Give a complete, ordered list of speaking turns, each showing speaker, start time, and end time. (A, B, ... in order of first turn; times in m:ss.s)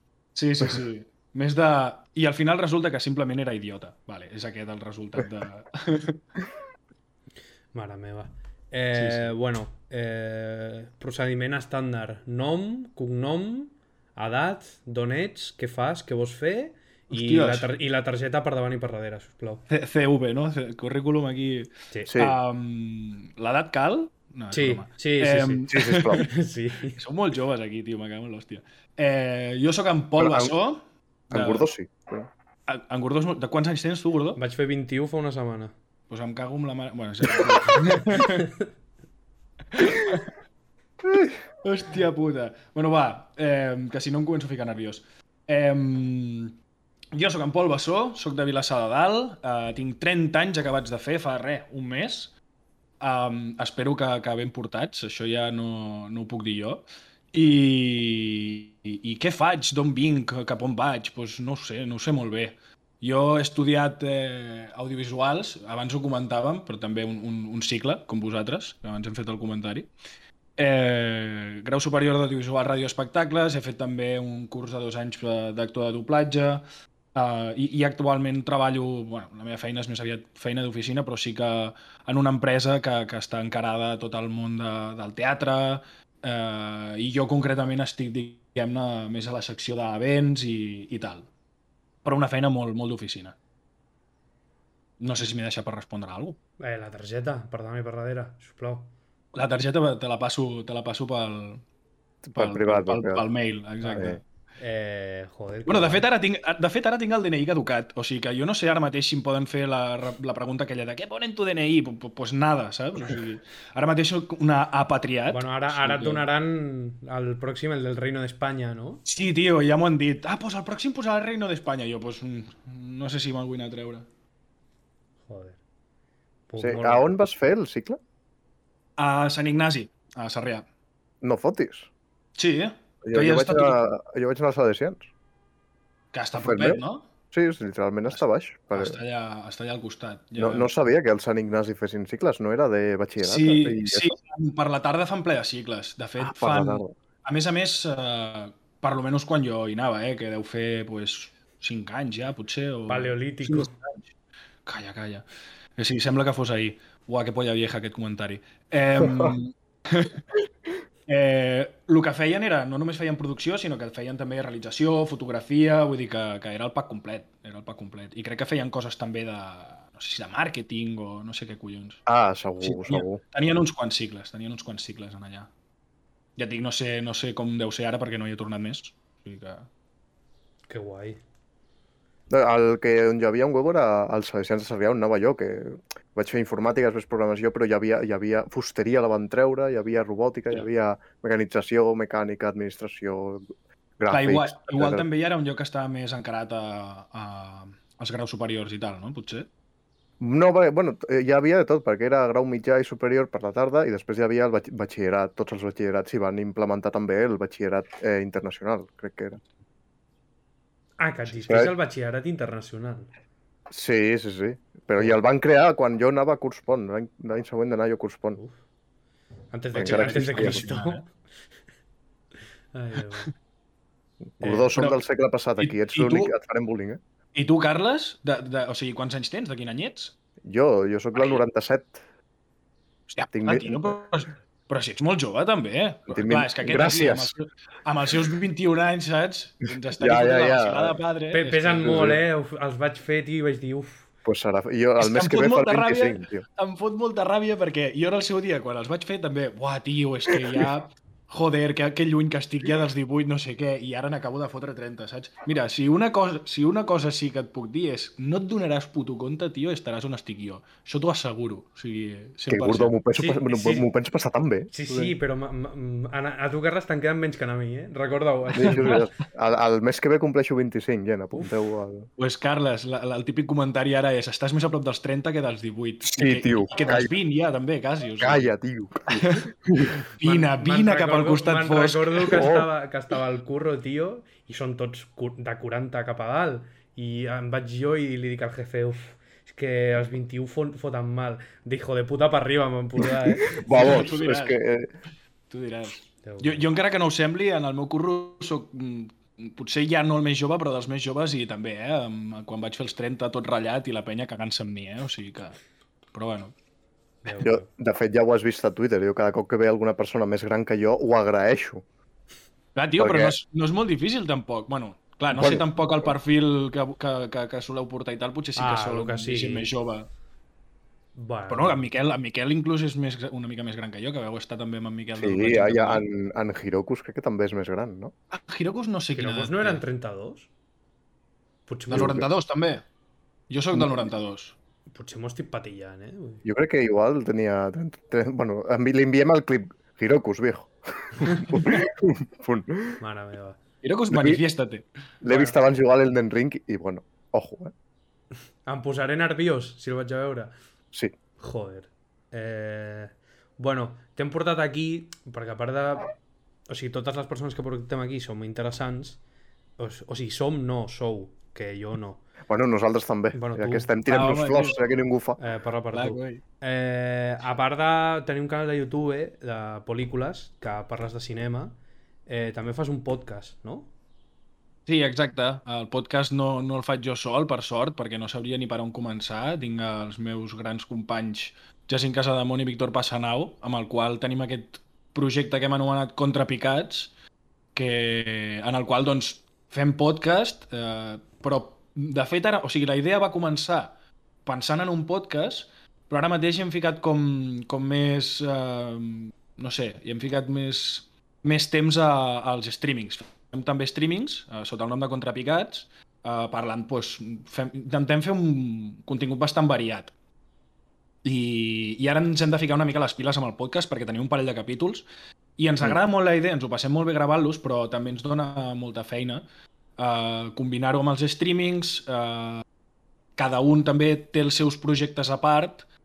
0:00.3-0:06.2 A
0:07.7-0:19.6 B
0:08.9-0:09.3 A
0:17.1-0:17.7 A
0:19.7-0:26.3 A
0:22.1-0:22.4 C
0:24.5-0:27.0 B
0:25.7-0:26.3 C
0:26.9-0:31.7 A
0:30.2-0:30.6 C
0:31.3-0:32.3 C
0:32.7-0:34.4 A
0:34.4-0:35.7 B
0:36.1-0:38.5 A
0:38.1-0:38.4 B
0:39.7-0:40.3 A
0:41.1-0:41.3 C
0:41.6-0:46.6 A
0:47.1-0:52.3 A
0:53.0-1:09.9 A
1:10.6-1:31.3 A
1:32.0-1:33.4 A
1:35.0-1:36.4 A
1:36.6-1:38.9 B
1:39.3-1:41.6 A
1:42.2-1:43.2 C
1:42.4-1:44.2 A
1:43.8-1:46.0 B
1:45.6-1:56.2 A
1:55.3-1:59.0 B
1:59.0-2:04.0 A
2:05.3-2:05.6 B
2:06.5-2:07.1 B
2:06.6-2:08.0 C
2:09.0-2:10.6 A
2:11.2-2:11.9 C
2:12.4-2:13.8 A
2:13.0-2:15.0 C
2:16.1-2:17.0 A
2:16.4-2:16.8 C
2:17.3-2:19.0 C
2:18.7-2:20.7 A
2:20.4-2:24.1 C
2:23.2-2:34.1 A
2:26.2-2:26.9 C
2:32.9-2:33.7 B
2:34.6-2:35.2 A
2:35.8-2:40.2 A
2:41.1-2:52.0 A
2:52.0-2:53.2 C
2:52.6-2:55.5 A
2:56.4-2:59.7 A
3:00.7-3:01.2 B
3:02.3-3:13.4 C
3:14.0-3:15.0 C
3:14.1-3:19.5 A
3:20.2-3:29.4 C
3:31.0-3:33.1 B
3:31.4-3:31.7 C
3:33.7-3:38.4 C
3:39.5-3:41.0 B
3:39.7-3:40.6 C
3:39.8-3:41.0 A
3:42.7-3:43.3 B
3:44.4-3:47.0 C
3:44.7-3:45.0 A
3:45.6-3:46.3 A
3:47.3-3:50.1 A
3:50.4-3:52.0 C
3:51.1-3:51.4 A
3:53.1-4:02.1 A
3:53.3-3:54.0 C
3:56.1-3:57.3 C
4:00.0-4:01.0 C
4:01.3-4:04.1 B
4:01.8-4:02.2 C
4:04.2-4:06.4 C
4:05.0-4:23.4 A
4:22.5-4:24.7 C
4:23.2-4:23.9 B
4:24.7-4:29.0 B
4:28.5-4:32.1 C
4:28.6-4:29.0 A
4:32.2-4:38.5 A
4:36.0-4:37.1 C
4:38.2-4:40.0 C
4:39.1-4:42.4 A
4:40.2-4:54.1 B
4:42.3-4:42.7 C
4:53.0-4:54.9 C
4:53.7-4:54.6 A
4:55.5-5:05.6 A
4:56.2-4:56.7 B
5:06.1-5:06.5 A
5:07.2-5:07.7 B
5:07.4-5:11.8 C
5:12.7-5:20.1 A
5:13.0-5:13.3 C
5:15.3-5:15.6 C
5:18.6-5:19.7 B
5:21.1-5:21.9 B
5:21.5-5:26.0 A
5:25.2-5:28.1 C
5:28.3-5:29.8 A
5:29.1-5:30.5 B
5:31.7-5:32.2 B
5:31.9-5:32.2 C
5:31.9-5:32.8 A
5:33.5-5:34.6 A
5:34.9-5:36.4 B
5:36.4-5:43.0 C
5:43.0-5:43.6 B
5:43.8-5:45.5 A
5:44.1-5:44.4 C
5:45.2-5:47.7 C
5:48.6-5:50.5 B
5:51.4-5:56.1 B
5:56.7-5:59.2 B
5:59.8-6:02.2 B
6:02.5-6:05.4 C
6:03.3-6:03.9 B
6:04.0-6:04.8 A
6:05.4-6:11.8 B
6:05.9-6:06.4 A
6:12.3-6:13.9 B
6:14.9-6:27.1 A
6:27.7-6:33.9 A
6:34.4-6:50.1 A
6:51.2-6:55.0 A
6:55.6-6:59.4 A
7:00.0-7:02.6 A
7:03.4-7:05.8 A